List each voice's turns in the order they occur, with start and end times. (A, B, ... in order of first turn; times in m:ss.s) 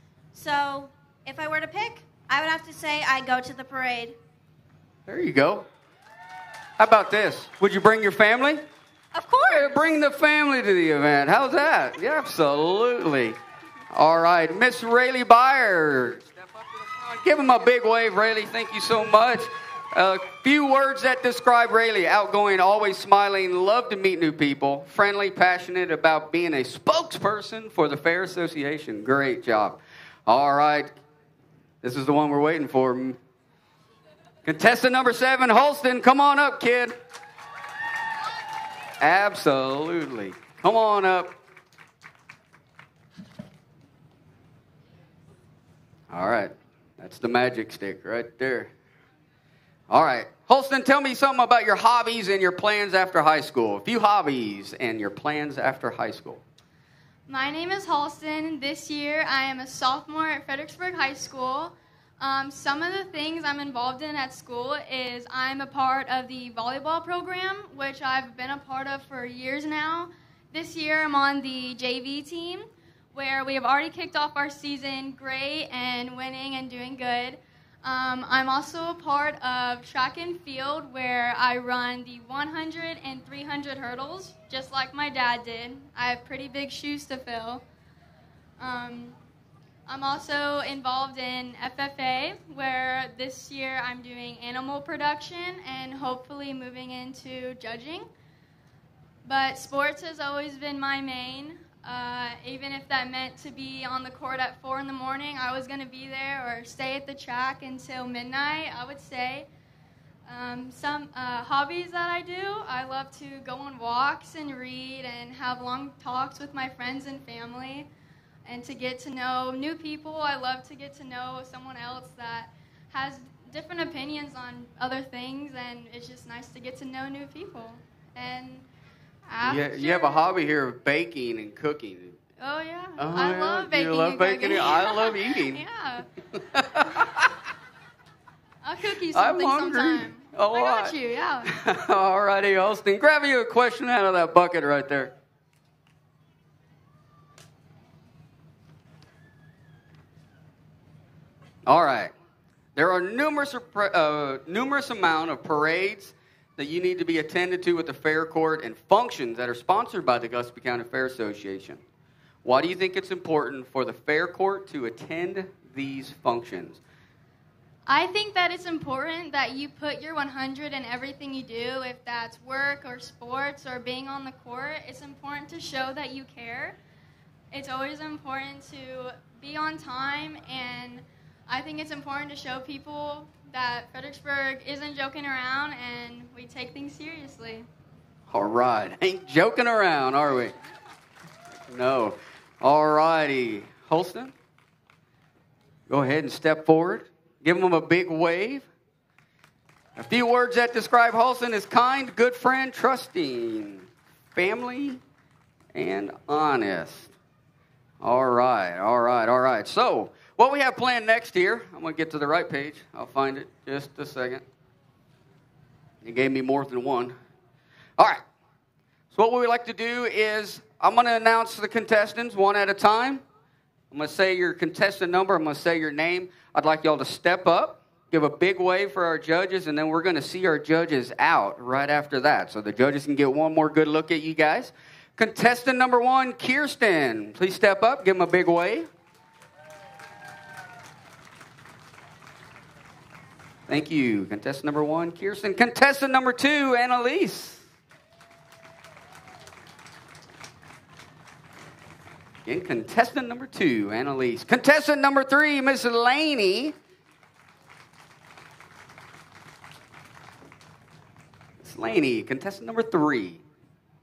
0:00.3-0:04.2 A
0:05.0-0:05.7 B
0:06.8-0:08.6 B
0:09.1-0:09.4 A
0:09.4-0:13.4 B
0:13.9-0:30.9 B
0:31.8-0:33.2 B
0:34.4-0:36.9 B
0:39.0-0:41.3 B
0:46.1-0:48.7 B
0:49.9-0:56.4 B
0:57.3-1:27.6 C
1:28.6-1:29.2 C
1:29.9-1:38.1 C
1:39.2-1:49.5 C
1:50.3-1:57.9 C
1:58.4-2:08.6 C
2:09.3-2:10.2 C
2:09.4-2:12.2 B
2:12.4-2:16.1 C
2:13.0-2:15.6 B
2:16.4-2:17.3 B
2:18.6-2:21.5 C
2:19.1-2:25.1 B
2:31.6-2:32.1 B
2:32.7-2:41.8 B
2:42.4-2:46.8 B
2:47.9-2:56.8 C
2:57.5-3:07.7 C
3:08.3-3:10.5 B
3:11.6-3:14.3 B
3:15.9-3:18.6 B
3:20.0-3:25.0 B
3:25.7-3:27.1 B
3:28.0-3:34.4 B
3:36.0-3:37.2 B
3:38.0-3:38.2 B
3:39.1-3:43.2 B
3:43.9-3:58.9 B
4:03.7-4:07.6 B
4:12.4-4:16.7 B
4:21.6-4:23.4 B